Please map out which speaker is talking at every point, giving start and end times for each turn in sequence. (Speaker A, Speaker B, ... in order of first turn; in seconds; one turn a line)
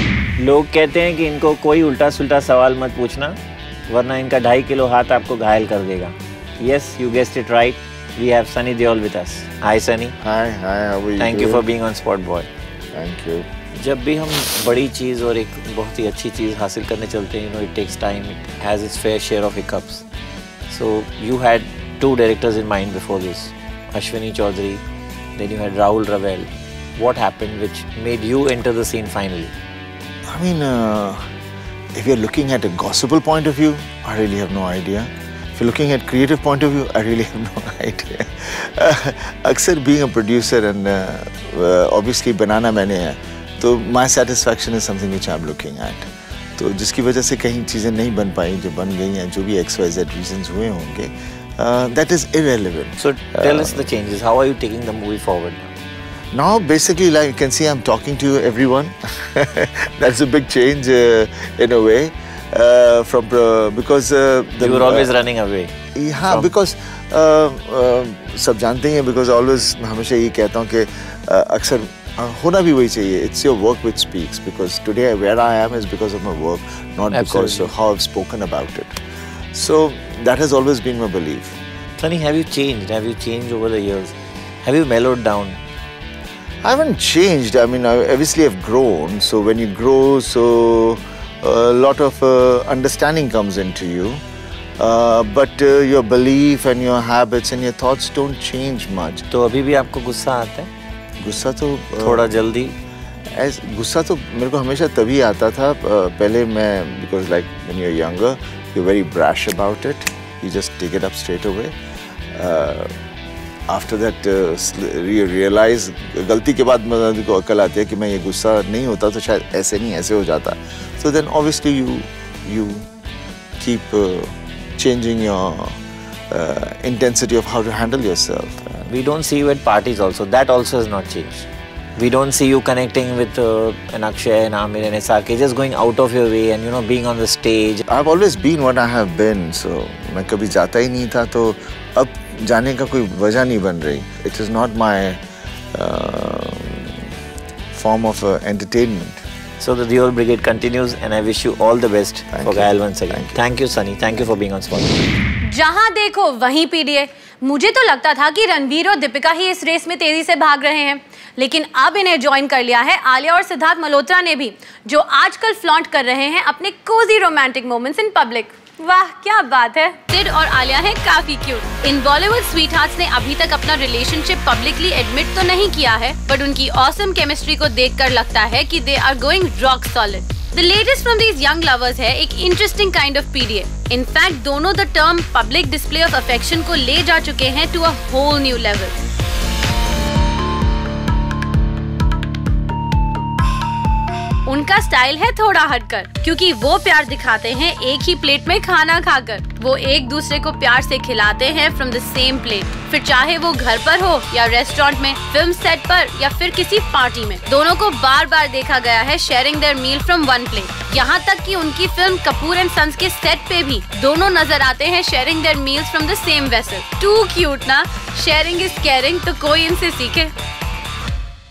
Speaker A: 0.4-10.2
Speaker B: 10.2-11.7
Speaker A: 11.2-12.5
Speaker B: 12.9-13.5
Speaker A: 13.8-20.1
Speaker A: 20.7-24.8
Speaker A: 25.4-29.5
Speaker B: 30.3-31.3
Speaker B: 31.9-53.8
Speaker A: 53.0-55.7
Speaker B: 56.3-65.1
Speaker A: 64.6-65.7
Speaker B: 66.0-79.0
Speaker A: 77.1-77.7
Speaker B: 79.5-81.6
Speaker A: 82.0-85.6
Speaker B: 86.6-94.2
Speaker B: 94.8-99.2
Speaker A: 99.3-100.7
Speaker B: 101.2-102.3
Speaker A: 102.0-102.7
Speaker B: 103.3-111.8
Speaker B: 112.3-113.0
Speaker B: 113.7-122.9
Speaker B: 123.6-125.8
Speaker B: 126.3-128.9
Speaker A: 128.9-131.5
Speaker A: 132.0-137.8
Speaker B: 137.9-145.2
Speaker B: 145.7-147.1
Speaker B: 147.7-149.2
Speaker A: 149.6-155.1
Speaker B: 152.3-153.4
Speaker C: 155.4-189.0
Speaker C: 194.4-220.3